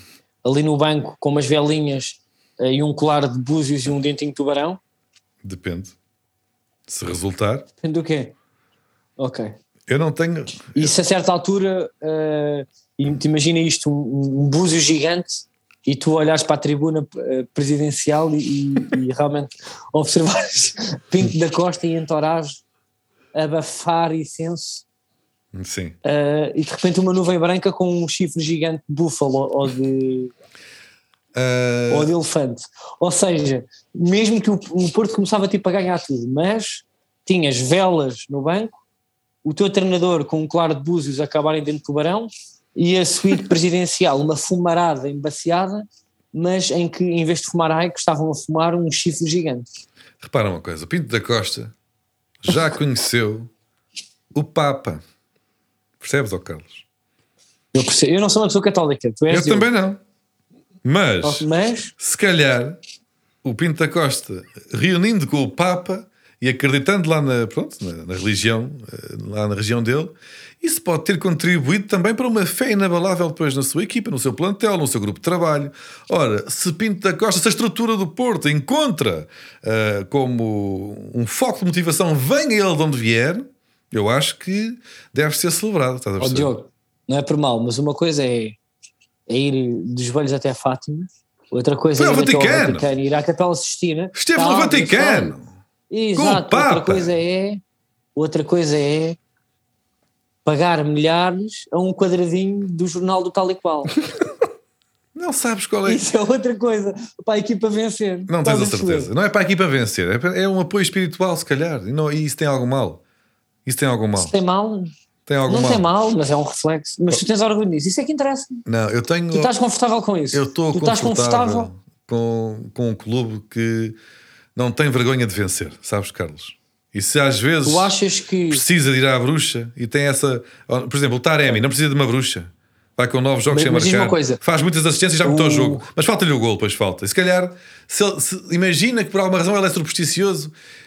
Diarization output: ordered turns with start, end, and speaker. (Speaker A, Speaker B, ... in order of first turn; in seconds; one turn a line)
Speaker A: 0.5-4.8
Speaker B: 5.4-6.0
Speaker B: 6.9-7.7
Speaker A: 7.8-8.3
Speaker A: 9.2-9.6
Speaker B: 9.9-10.9
Speaker A: 10.8-22.6
Speaker A: 23.3-24.9
Speaker B: 25.5-26.0
Speaker A: 26.0-30.3
Speaker B: 31.4-32.1
Speaker A: 31.9-38.8
Speaker A: 39.4-49.7
Speaker B: 50.2-51.7
Speaker B: 52.4-53.5
Speaker B: 54.3-55.0
Speaker B: 56.0-56.8
Speaker A: 57.7-59.7
Speaker B: 59.3-60.0
Speaker B: 60.9-61.5
Speaker A: 61.2-61.9
Speaker B: 62.0-62.8
Speaker B: 63.4-86.5
Speaker A: 86.2-88.6
Speaker A: 89.3-95.3
Speaker B: 92.0-92.9
Speaker B: 94.2-95.5
Speaker A: 95.9-97.6
Speaker B: 96.2-97.2
Speaker A: 98.2-99.2
Speaker A: 100.5-104.0
Speaker B: 105.2-106.0
Speaker A: 105.9-109.1
Speaker B: 108.3-113.0
Speaker B: 113.7-114.3
Speaker A: 114.2-114.9
Speaker B: 115.3-115.8
Speaker A: 115.5-118.6
Speaker B: 118.7-119.5
Speaker A: 119.3-121.7
Speaker B: 120.3-124.0
Speaker B: 124.6-127.9
Speaker A: 127.7-128.6
Speaker B: 128.5-140.5
Speaker A: 133.5-134.4
Speaker A: 135.2-135.9